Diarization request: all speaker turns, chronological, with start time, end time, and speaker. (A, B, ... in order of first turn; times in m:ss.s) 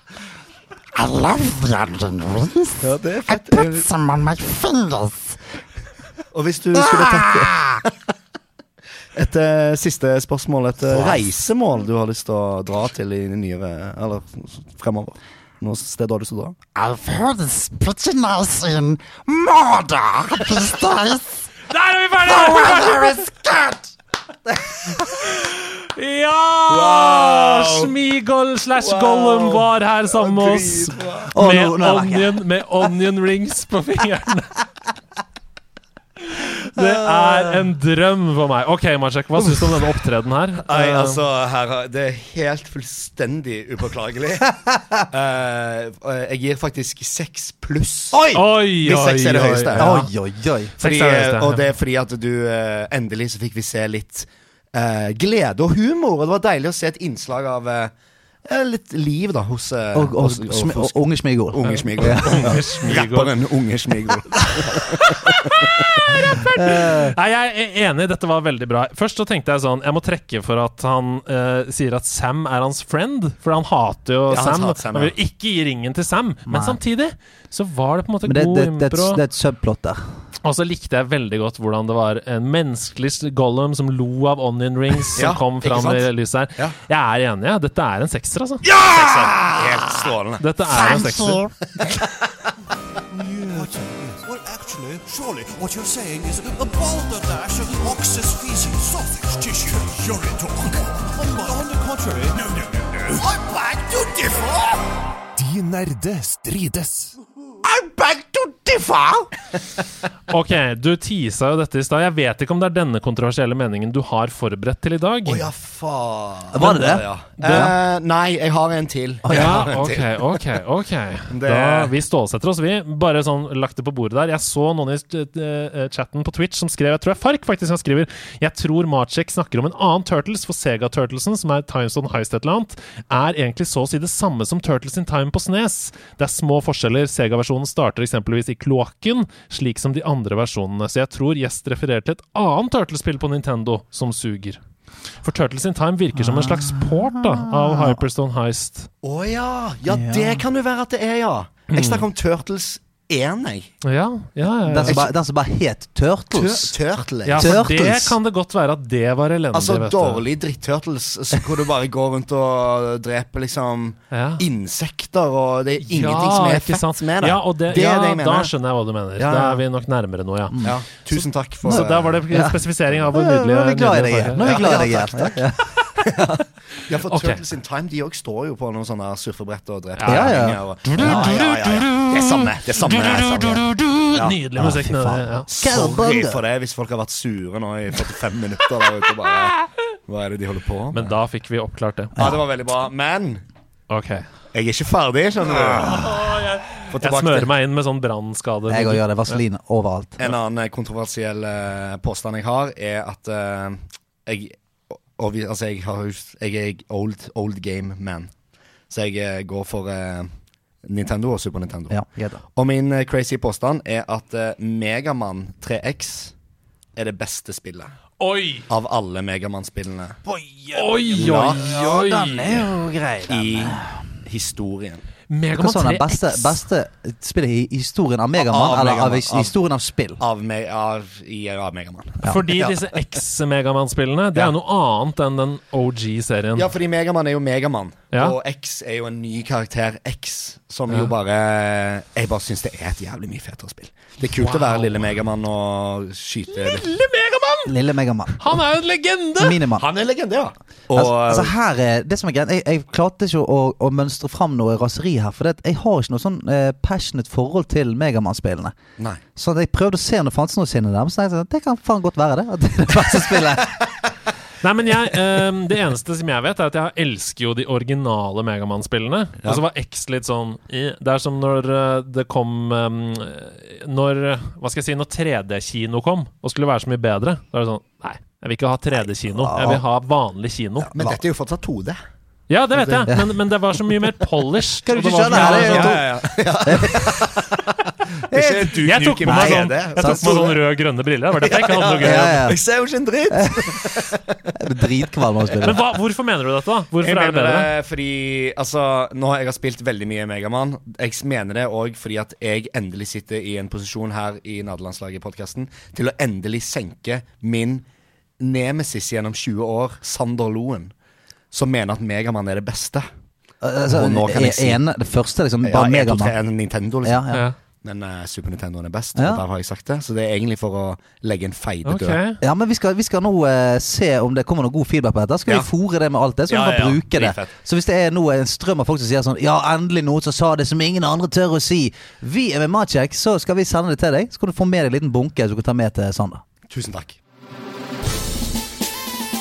0:01.0-0:05.4 A
0:02.8-0:03.8 B
0:06.3-0:07.9 B
0:06.7-0:07.8 A
0:09.1-0:16.6 B
0:10.9-0:11.2 A
0:16.7-0:21.5 A
0:21.7-0:23.2 C
0:22.2-0:23.9 A
0:25.0-0:34.5 C
0:26.7-0:27.9 B
0:28.8-0:31.3 B
0:31.3-0:32.4 D
0:36.3-0:41.2 C
0:36.8-0:37.6 D
0:40.6-0:49.9 B
0:48.1-0:48.4 D
0:48.3-0:50.1 C
0:49.7-0:50.7 D
0:50.8-0:51.6 C
0:50.8-0:57.9 B
0:58.5-1:05.7 B
0:59.9-1:02.6 D
1:01.6-1:03.3 C
1:04.7-1:19.2 C
1:06.5-1:07.1 D
1:14.3-1:15.1 B
1:16.5-1:16.8 D
1:18.2-1:20.0 D
1:20.4-1:29.4 C
1:25.1-1:26.7 B
1:29.0-1:29.6 A
1:29.4-1:30.4 B
1:30.4-1:31.4 C
1:30.7-1:31.5 A
1:33.1-1:47.2 E
1:47.8-1:49.2 A
1:50.3-1:55.5 C
1:55.2-2:00.4 B
1:56.5-1:57.7 D
1:57.4-1:57.7 C
1:59.2-1:59.6 D
1:59.3-2:24.6 C
2:01.3-2:01.9 B
2:25.2-2:28.9 C
2:26.1-2:28.0 D
2:29.0-2:33.7 B
2:29.9-2:30.4 D
2:31.7-2:32.0 C
2:33.8-2:35.0 C
2:34.6-2:36.7 D
2:34.8-2:35.1 B
2:36.3-2:37.6 B
2:37.2-2:40.2 C
2:37.3-2:38.2 D
2:39.5-2:48.5 B
2:44.1-2:44.4 C
2:45.8-2:50.6 C
2:49.2-2:49.6 B
2:50.5-2:50.8 D
2:50.6-2:52.2 B
2:51.1-2:54.7 C
2:51.7-2:52.6 D
2:53.1-2:55.7 D
2:54.4-2:55.4 B
2:56.0-3:04.4 B
2:56.9-2:57.4 C
3:00.0-3:01.5 C
3:00.1-3:01.4 D
3:03.3-3:03.6 C
3:04.1-3:05.5 C
3:04.6-3:06.4 D
3:05.5-3:09.6 B
3:10.1-3:11.0 B
3:10.9-3:12.2 C
3:12.2-3:12.4 D
3:12.2-3:13.4 B
3:13.9-3:14.2 C
3:14.5-3:16.2 B
3:15.5-3:19.4 C
3:16.9-3:17.5 B
3:18.7-3:20.2 D
3:20.2-3:28.3 B
3:28.9-3:30.3 B
3:30.8-3:32.0 B
3:31.9-3:32.4 D
3:32.6-3:36.3 B
3:37.0-3:37.9 B
3:38.2-3:38.6 C
3:38.7-3:40.2 B
3:40.3-3:43.9 D
3:40.7-3:42.7 C
3:41.1-3:41.6 B
3:43.3-3:45.0 B
3:45.3-3:46.6 C
3:45.5-3:50.2 D
3:48.4-3:49.5 B
3:50.2-3:52.7 B
3:52.2-3:56.7 C
3:56.5-4:06.9 B
3:58.1-3:58.4 C
4:04.2-4:05.1 C
4:06.5-4:07.7 C
4:07.6-4:08.6 D
4:08.4-4:09.6 C
4:09.4-4:09.8 D
4:09.8-4:11.5 B
4:10.9-4:18.7 D
4:19.4-4:23.8 D
4:24.6-4:40.9 C
4:39.3-4:39.8 D
4:40.8-4:41.2 D
4:40.9-4:42.0 B
4:42.5-4:46.0 C
4:42.7-4:43.1 B
4:44.8-4:47.3 D
4:45.2-4:50.6 B
4:48.3-4:50.5 D
4:48.8-4:52.4 C
4:51.4-4:54.2 B
4:51.9-4:52.6 D
4:53.3-4:53.8 D
4:54.5-4:55.8 D
4:55.6-4:57.7 C
4:57.0-5:07.8 B
5:08.4-5:10.9 B
5:11.5-5:13.0 B
5:13.6-5:16.3 D
5:13.9-5:14.8 B
5:15.6-5:17.2 B
5:17.0-5:17.4 D
5:17.8-5:22.2 B
5:19.2-5:19.4 D
5:21.8-5:22.4 C
5:22.4-5:36.4 D
5:26.5-5:27.5 B
5:36.7-5:37.2 B